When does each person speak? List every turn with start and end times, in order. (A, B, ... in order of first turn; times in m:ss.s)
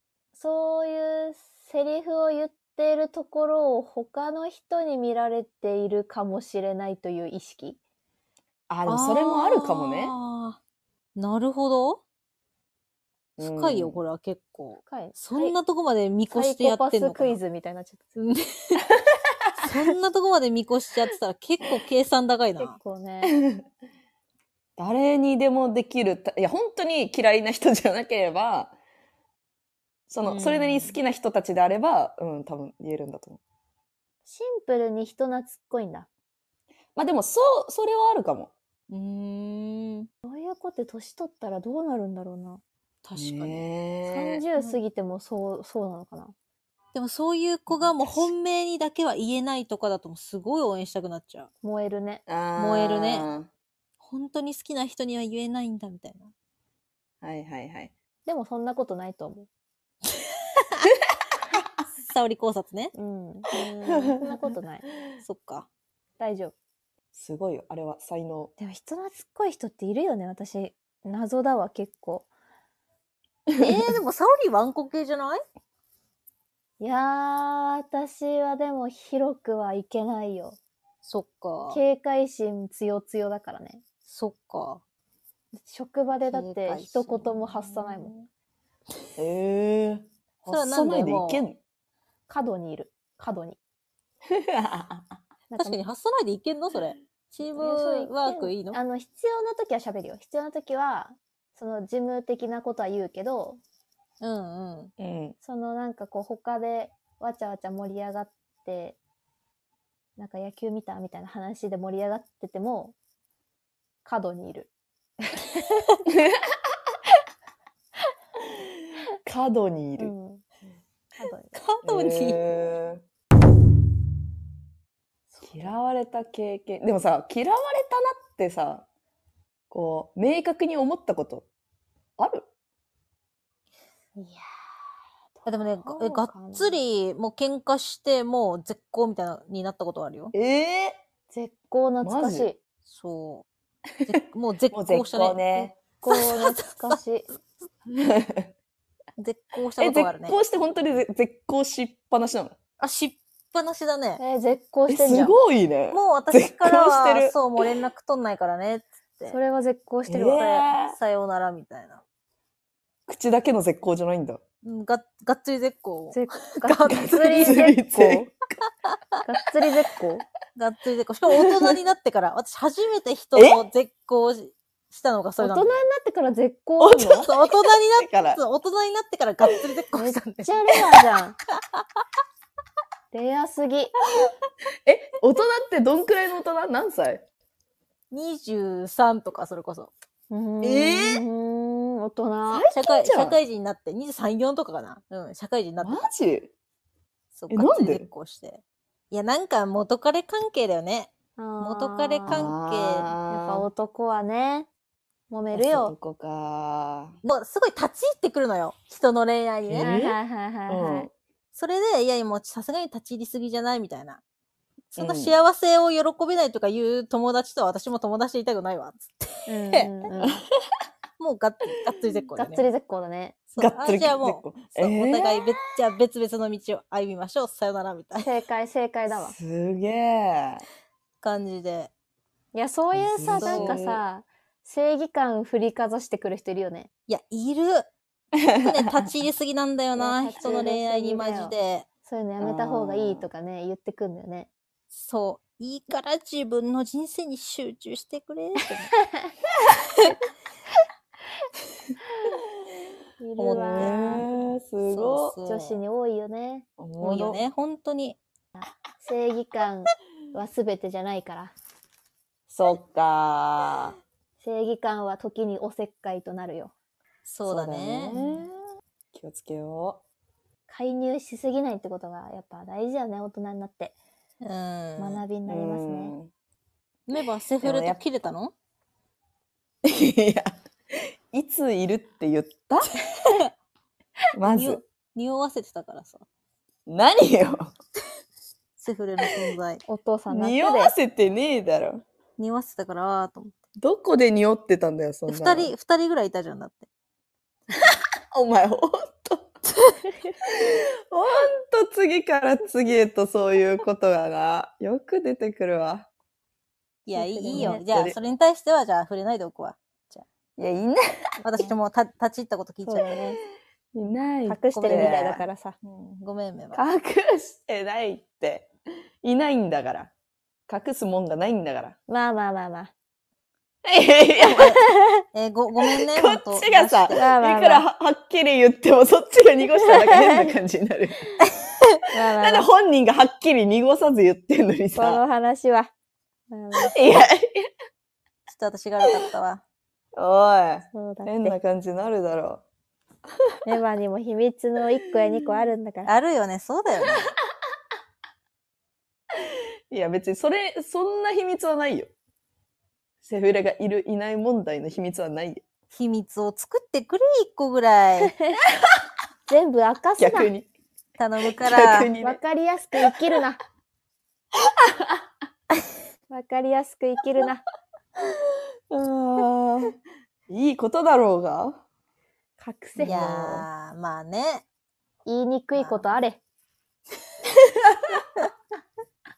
0:00.4-0:07.8 A
0:08.7-0:10.2 B
0:08.9-0:10.6 C
0:11.2-0:12.0 C
0:13.4-0:14.0 B
0:13.4-0:17.4 C
0:14.9-0:15.6 A
0:16.3-0:18.1 A
0:18.2-0:18.9 C
0:19.6-0:22.8 C
0:22.6-0:23.4 A
0:23.2-0:23.6 B
0:24.8-0:28.8 B
0:30.1-0:33.4 B
0:30.2-0:31.0 C
0:34.2-0:36.1 A
0:37.0-0:38.5 B
0:38.9-0:40.1 C
0:40.2-0:42.6 A
0:43.0-0:43.6 C
0:43.2-0:44.4 B
0:44.0-0:46.3 A
0:46.9-0:51.5 C
0:47.7-0:48.3 B
0:51.6-0:52.2 A
0:52.3-0:53.5 B
0:52.6-0:53.3 C
0:54.0-0:56.3 C
0:57.2-0:57.9 B
0:58.2-0:59.5 A
1:01.9-1:02.9 C
1:03.0-1:03.5 A
1:03.5-1:04.3 C
1:04.1-1:04.9 A
1:05.2-1:05.7 C
1:06.2-1:06.5 A
1:07.1-1:08.5 B
1:08.6-1:12.3 A
1:13.6-1:15.4 C
1:16.8-1:20.6 A
1:21.1-1:21.8 C
1:21.7-1:23.8 A
1:24.1-1:24.8 C
1:25.5-1:28.1 A
1:26.2-1:28.3 C
1:29.2-1:31.6 B
1:30.4-1:31.4 C
1:32.3-1:33.6 A
1:34.3-1:35.2 B
1:35.5-1:35.8 A
1:35.6-1:38.8 C
1:37.5-1:43.6 A
1:44.2-1:44.9 C
1:45.0-1:45.4 B
1:45.4-1:49.0 A
1:50.2-1:53.0 A
1:54.0-1:54.7 A
1:55.3-1:55.6 A
1:59.2-2:00.1 B
2:00.0-2:00.4 A
2:01.2-2:01.5 A
2:01.5-2:02.7 C
2:01.8-2:03.0 B
2:05.4-2:08.8 B
2:09.7-2:11.5 B
2:12.2-2:12.5 B
2:14.2-2:14.4 A
2:15.4-2:16.8 A
2:15.5-2:20.3 C
2:20.3-2:21.0 B
2:21.3-2:22.6 A
2:22.0-2:22.5 B
2:22.9-2:23.4 C
2:24.0-2:27.0 C
2:24.7-2:25.8 B
2:25.9-2:27.3 A
2:28.0-2:28.5 B
2:29.2-2:30.4 C
2:29.8-2:32.5 B
2:32.8-2:34.2 C
2:34.2-2:35.4 A
2:34.9-2:37.4 B
2:35.9-2:39.4 C
2:39.3-2:40.7 A
2:40.1-2:41.0 B
2:40.9-2:42.0 C
2:43.1-2:44.4 B
2:44.6-2:47.7 C
2:46.1-2:48.3 A
2:46.9-2:48.3 B
2:49.2-2:50.3 A
2:50.6-2:55.7 C
2:51.3-2:51.7 B
2:53.4-2:53.6 B
2:55.4-2:57.1 A
2:56.8-2:58.4 B
2:57.2-3:00.5 C
3:00.0-3:01.4 A
3:03.1-3:03.9 A
3:04.9-3:07.2 B
3:08.1-3:09.9 C
3:10.3-3:12.7 A
3:10.6-3:11.1 C
3:10.6-3:11.2 B
3:12.5-3:13.4 B
3:12.7-3:16.0 C
3:15.8-3:16.5 B
3:17.4-3:23.1 C
3:17.5-3:18.1 B
3:21.4-3:22.4 A
3:22.3-3:23.7 B
3:23.3-3:24.7 A
3:25.3-3:25.9 A
3:25.5-3:27.2 B
3:27.3-3:29.9 C
3:29.7-3:30.2 B
3:29.8-3:31.1 A
3:30.7-3:31.1 B
3:31.5-3:34.2 C
3:34.9-3:40.2 C
3:35.0-3:35.4 B
3:39.5-3:40.4 A
3:41.2-3:42.7 C
3:42.4-3:43.4 A
3:43.5-3:48.3 C
3:43.6-3:45.4 B
3:48.2-3:49.4 A
3:49.1-3:50.6 B
3:51.2-3:51.9 C
3:52.5-3:56.9 A
3:52.9-3:54.0 B
3:53.4-3:53.8 C
3:57.1-3:57.9 C
3:58.4-3:59.0 B
3:58.6-4:01.9 C
4:00.0-4:04.5 A
4:00.4-4:00.7 B
4:02.4-4:03.3 B
4:04.9-4:08.9 C
4:13.2-4:14.2 A
4:13.4-4:14.3 C
4:13.4-4:15.4 B
4:14.8-4:15.8 C
4:15.5-4:16.7 A
4:16.8-4:17.5 B
4:17.0-4:18.2 C
4:18.6-4:21.5 A
4:22.5-4:24.0 B
4:24.4-4:26.7 A
4:27.2-4:28.2 C
4:27.4-4:30.0 B
4:28.1-4:28.4 A
4:30.7-4:34.0 A
4:34.4-4:35.2 C
4:35.0-4:36.2 A
4:35.5-4:36.3 B
4:37.1-4:38.5 C
4:37.6-4:38.0 B
4:39.8-4:42.9 B
4:44.3-4:44.8 B
4:44.5-4:46.2 C
4:46.9-4:47.7 B
4:48.8-4:49.8 C
4:49.9-4:51.0 A
4:50.3-4:52.0 B
4:52.4-4:53.6 C
4:53.8-4:55.7 B
4:55.3-4:56.9 C
4:58.3-4:59.5 B
5:00.5-5:06.1 B
5:07.1-5:10.2 C
5:07.1-5:07.8 A
5:07.5-5:08.2 B
5:10.6-5:11.0 B
5:11.4-5:13.1 C
5:12.8-5:13.4 A
5:14.0-5:15.4 B
5:14.5-5:15.8 A
5:14.7-5:16.8 C
5:16.7-5:18.7 B
5:19.2-5:20.1 B
5:20.7-5:22.0 B
5:22.1-5:22.9 A
5:23.8-5:24.8 B
5:24.6-5:24.8 C
5:24.6-5:25.1 A
5:25.3-5:27.2 C
5:26.1-5:31.3 B
5:27.1-5:27.9 A
5:29.8-5:30.5 A
5:32.1-5:32.7 A
5:32.3-5:35.2 B
5:34.9-5:35.9 A
5:36.5-5:37.0 A
5:36.8-5:37.7 B
5:38.5-5:39.6 C
5:40.2-5:42.6 B
5:40.9-5:41.6 A
5:43.6-5:46.1 A
5:46.0-5:47.3 C
5:49.9-5:52.1 B
5:53.2-5:55.6 B
5:55.9-5:58.3 C
5:58.3-5:58.6 A
5:59.5-6:00.5 A
6:00.2-6:00.7 B
6:01.2-6:02.1 C
6:01.6-6:02.4 B
6:02.2-6:03.6 A
6:04.8-6:05.2 B
6:06.3-6:07.6 A
6:08.9-6:10.0 B
6:10.5-6:11.8 B
6:12.6-6:13.6 A
6:13.0-6:13.6 B
6:13.0-6:14.6 C
6:15.2-6:16.4 A
6:15.8-6:16.2 C
6:17.6-6:18.2 B